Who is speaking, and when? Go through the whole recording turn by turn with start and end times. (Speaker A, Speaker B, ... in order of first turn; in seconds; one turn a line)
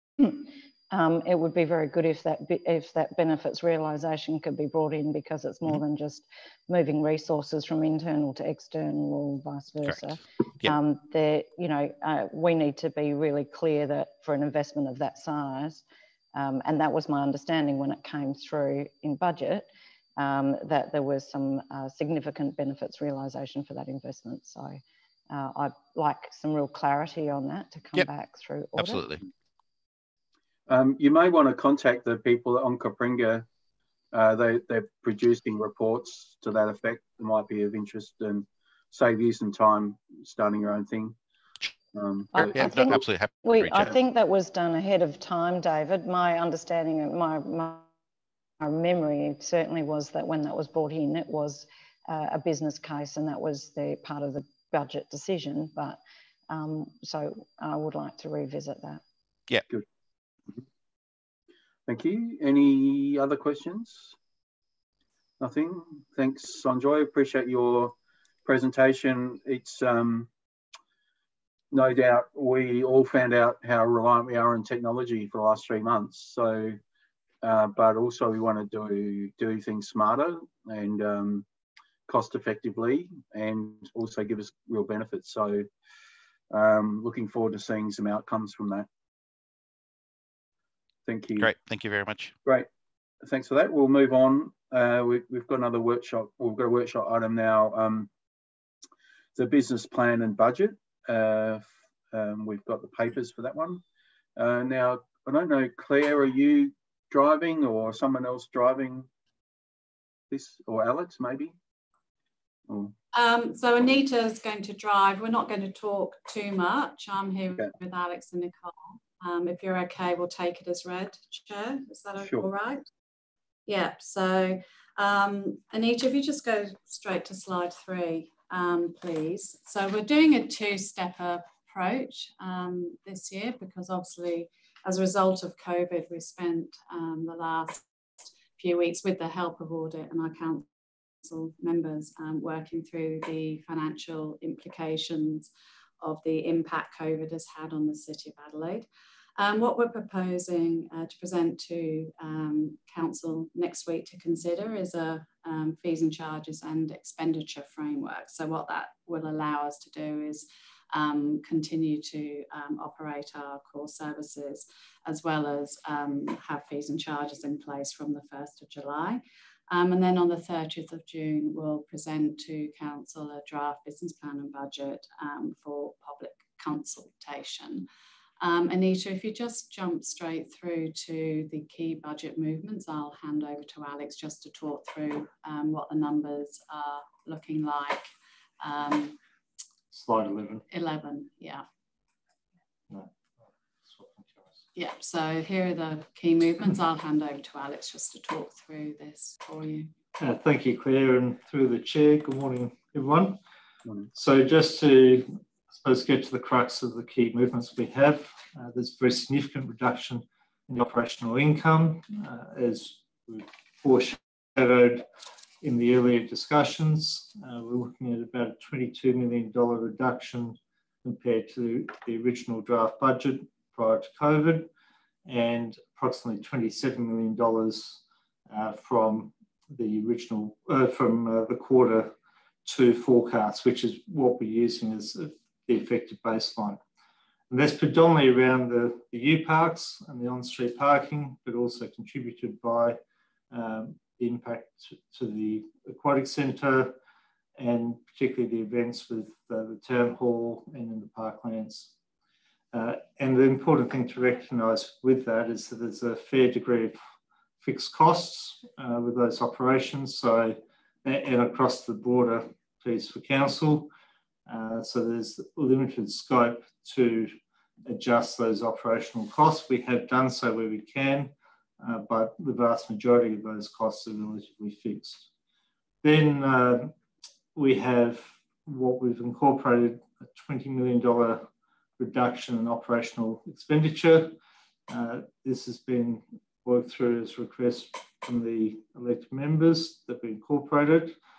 Speaker A: 0.2-29.0
Speaker B: 28.8-29.2
Speaker C: 30.7-33.5
Speaker C: 34.1-41.1
Speaker C: 41.9-43.0
Speaker A: 42.3-47.9
Speaker B: 42.3-44.0
Speaker A: 48.6-59.0
Speaker C: 61.9-64.2
Speaker C: 65.4-70.3
Speaker C: 71.7-76.8
Speaker C: 77.4-81.5
Speaker C: 82.1-85.7
Speaker C: 86.5-88.9
Speaker C: 91.0-91.5
Speaker B: 91.4-92.3
Speaker C: 93.2-98.1
Speaker C: 99.3-103.8
Speaker C: 104.3-109.1
Speaker C: 110.3-111.5
Speaker C: 112.7-112.9
Speaker D: 113.1-122.9
Speaker C: 122.2-122.5
Speaker D: 123.7-137.8
Speaker D: 138.6-140.7
Speaker D: 141.2-177.9
Speaker D: 178.4-188.1
Speaker D: 188.6-189.2
Speaker E: 189.9-190.6
Speaker D: 190.7-191.6
Speaker E: 192.9-194.6
Speaker D: 194.7-199.9
Speaker E: 200.2-203.4
Speaker E: 204.1-215.1
Speaker E: 215.6-224.7
Speaker E: 225.2-232.1
Speaker E: 232.6-236.8
Speaker E: 237.5-243.0
Speaker E: 243.5-246.9
Speaker E: 247.6-251.9
Speaker E: 252.7-257.0
Speaker E: 257.6-263.9
Speaker E: 264.5-275.3
Speaker E: 276.0-276.9
Speaker E: 277.5-284.3
Speaker E: 284.9-291.2